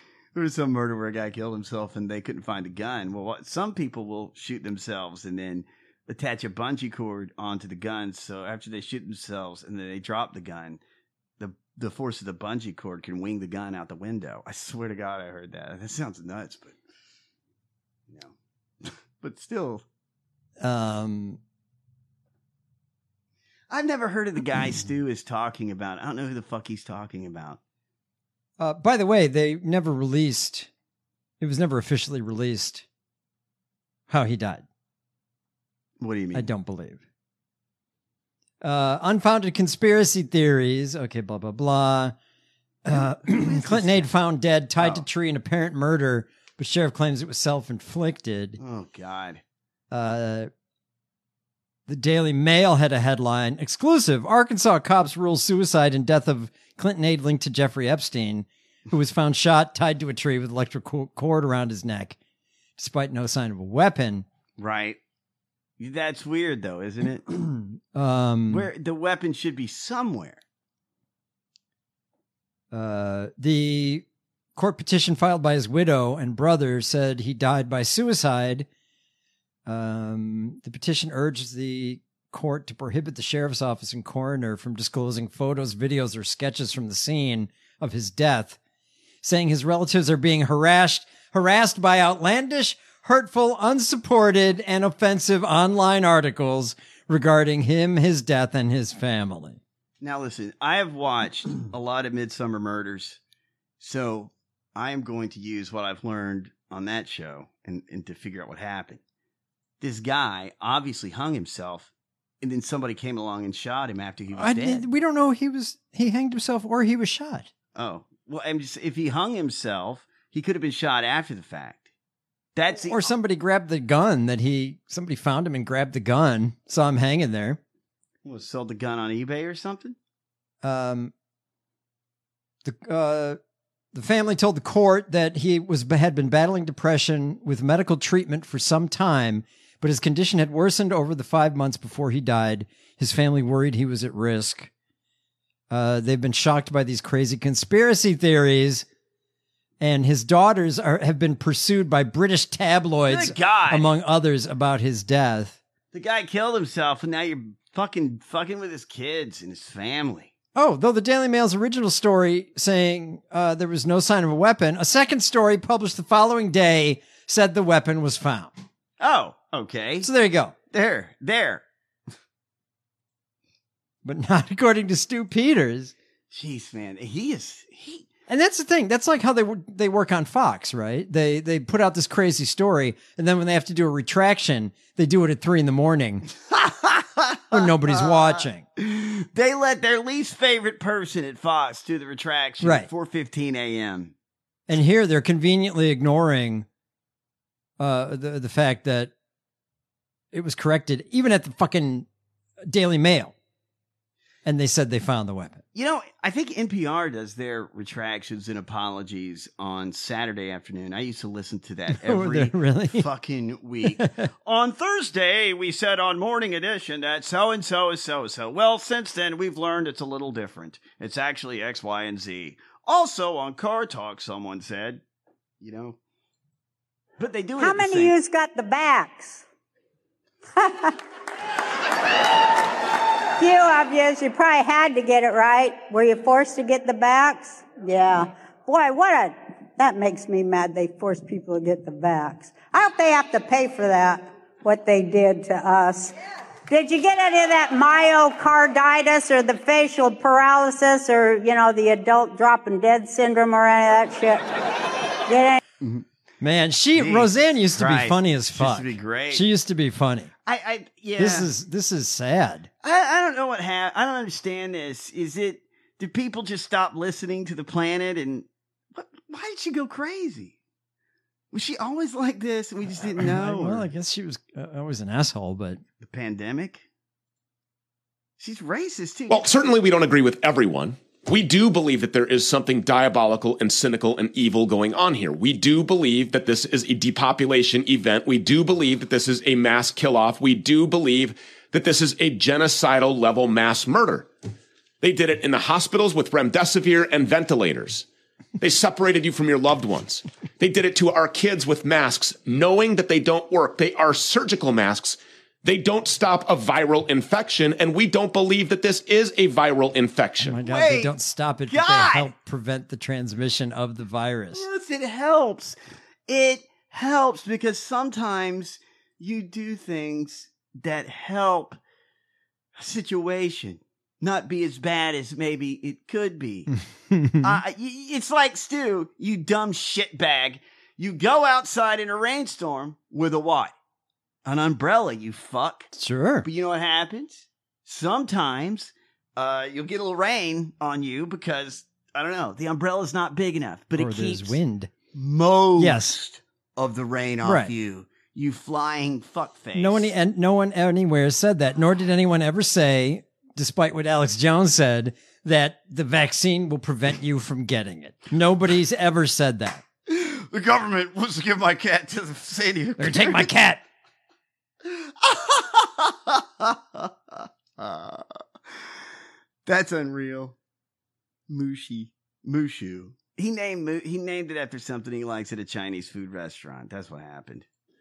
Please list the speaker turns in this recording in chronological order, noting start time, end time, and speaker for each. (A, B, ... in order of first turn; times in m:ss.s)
0:00.3-0:10.8 A
0:11.4-0:16.8 A
0:18.8-0:19.8 A
0:20.6-0:21.4 B
0:23.7-0:27.6 A
0:28.6-0:30.7 B
0:31.4-0:32.8 B
0:34.1-0:34.6 B
0:36.0-0:36.5 A
0:36.3-0:37.0 B
0:38.6-0:42.1 B
0:42.8-0:48.6 B
0:42.9-0:44.1 A
0:44.8-0:45.0 A
0:48.6-0:49.4 A
0:49.9-0:50.5 B
0:51.9-1:02.2 B
1:02.8-1:04.2 B
1:04.6-1:05.0 A
1:05.8-1:07.3 A
1:07.9-1:08.7 B
1:08.5-1:10.4 A
1:12.7-1:14.0 B
1:14.6-1:18.7 B
1:19.6-1:28.6 B
1:29.2-1:39.6 B
1:40.0-1:43.2 A
1:43.8-1:49.0 A
1:49.8-1:51.9 A
1:52.4-1:54.8 A
1:54.3-1:57.5 B
1:57.7-2:01.9 A
2:02.5-2:03.1 A
2:02.8-2:07.6 B
2:08.2-2:10.0 A
2:10.6-2:11.1 B
2:12.6-2:13.4 B
2:13.9-2:24.7 B
2:25.7-2:28.8 B
2:29.8-2:35.6 B
2:33.1-2:33.9 A
2:35.9-2:40.3 A
2:40.5-2:48.5 B
2:49.0-2:50.1 A
2:50.0-2:50.5 B
2:50.7-2:51.6 A
2:54.0-2:55.9 B
2:56.3-2:58.1 A
2:58.3-3:06.3 B
3:06.5-3:14.1 A
3:07.5-3:08.6 B
3:12.6-3:12.9 B
3:14.7-3:16.6 B
3:17.8-3:19.1 B
3:20.3-3:22.1 B
3:22.6-3:23.3 B
3:24.4-3:25.6 B
3:25.7-3:45.0 A
3:31.9-3:33.1 B
3:45.6-3:46.0 A
3:47.2-3:48.1 A
3:47.6-3:49.4 C
3:50.6-3:50.9 C
3:53.4-4:06.1 C
4:06.7-4:14.4 C
4:15.3-4:15.6 C
4:16.4-4:20.3 B
4:17.0-4:19.4 A
4:20.4-4:21.5 A
4:21.2-4:22.7 B
4:22.8-4:30.6 A
4:31.5-4:33.9 A
4:32.9-4:35.8 B
4:36.0-4:36.8 A
4:38.4-4:39.4 A
4:39.3-4:54.3 D
4:55.0-4:58.0 D
4:58.6-5:10.5 D
5:10.4-5:14.7 B
5:10.6-5:11.1 A
5:11.7-5:12.3 A
5:14.5-5:15.8 A
5:16.3-5:21.8 A
5:22.8-5:26.7 A
5:26.7-5:27.6 B
5:27.4-5:33.7 A
5:34.4-5:35.9 A
5:35.9-5:36.5 B
5:36.4-5:44.6 A
5:44.0-5:44.9 B
5:45.1-5:50.1 A
5:45.8-5:46.2 B
5:47.4-5:47.7 B
5:49.7-5:59.8 B
6:00.1-6:03.5 A
6:03.0-6:03.8 B
6:04.8-6:08.2 A
6:09.6-6:10.5 A
6:11.5-6:17.6 A